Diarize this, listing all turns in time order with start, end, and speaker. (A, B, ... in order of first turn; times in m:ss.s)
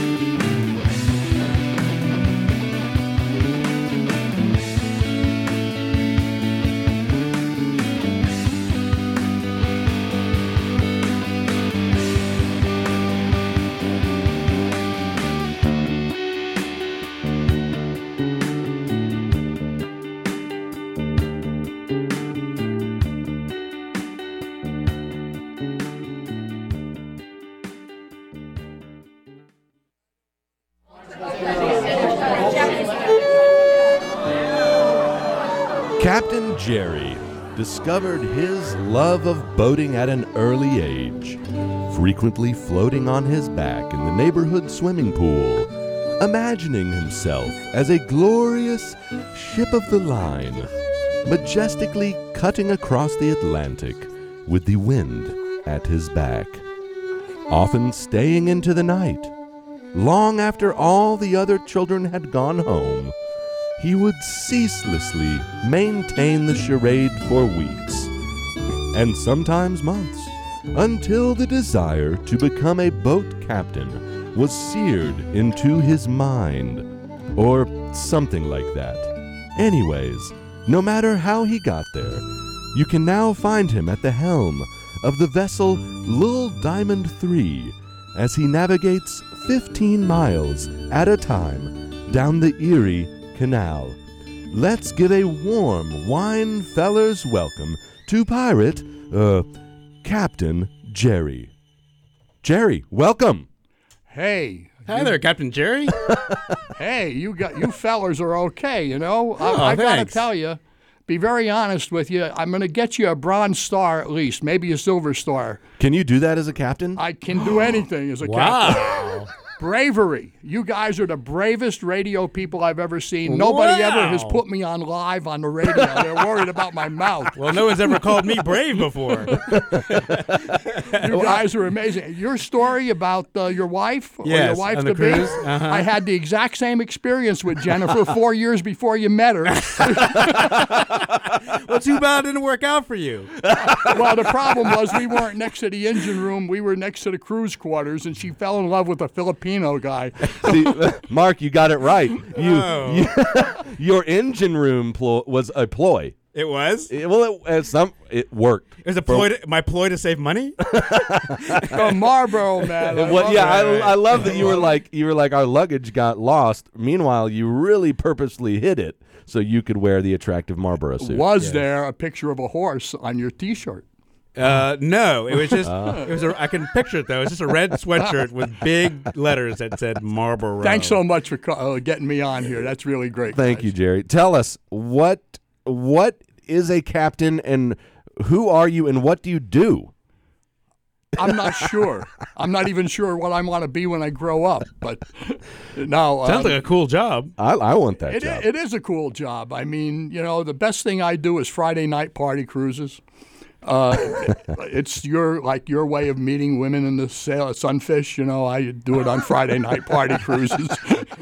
0:36.0-0:50.7 A
0:51.2-0:56.6 A
0:57.5-0:59.3 A
0:59.9-1:03.1 A
1:03.8-1:08.1 A
1:08.9-1:34.0 A
1:34.5-1:39.5 A
1:40.0-1:41.5 A
1:42.4-1:43.5 A
1:44.1-1:45.2 B
1:44.9-1:46.0 C
1:46.8-1:55.6 B
1:49.4-1:50.2 C
1:55.8-1:57.0 A
1:57.0-2:08.4 B
1:58.2-1:59.3 C
2:03.2-2:04.4 C
2:07.4-2:11.4 C
2:09.3-2:09.6 B
2:11.0-2:20.5 B
2:14.2-2:15.9 C
2:19.6-2:23.3 C
2:23.4-2:24.7 A
2:23.6-2:30.8 B
2:30.3-2:36.2 A
2:32.3-2:33.1 C
2:36.3-2:36.9 C
2:36.9-2:39.3 A
2:38.8-2:40.7 C
2:40.6-2:42.0 A
2:41.4-2:41.8 C
2:41.7-2:44.7 B
2:42.8-2:51.3 A
2:43.0-2:44.6 C
2:51.0-2:53.8 B
2:54.4-3:01.0 C
2:55.6-2:56.1 A
2:55.7-2:56.0 B
3:00.6-3:03.7 B
3:03.3-3:09.9 A
3:11.2-3:16.6 B
3:11.3-3:11.7 A
3:16.2-3:17.3 C
3:17.4-3:18.5 A
3:18.1-3:23.0 B
3:23.6-3:31.1 B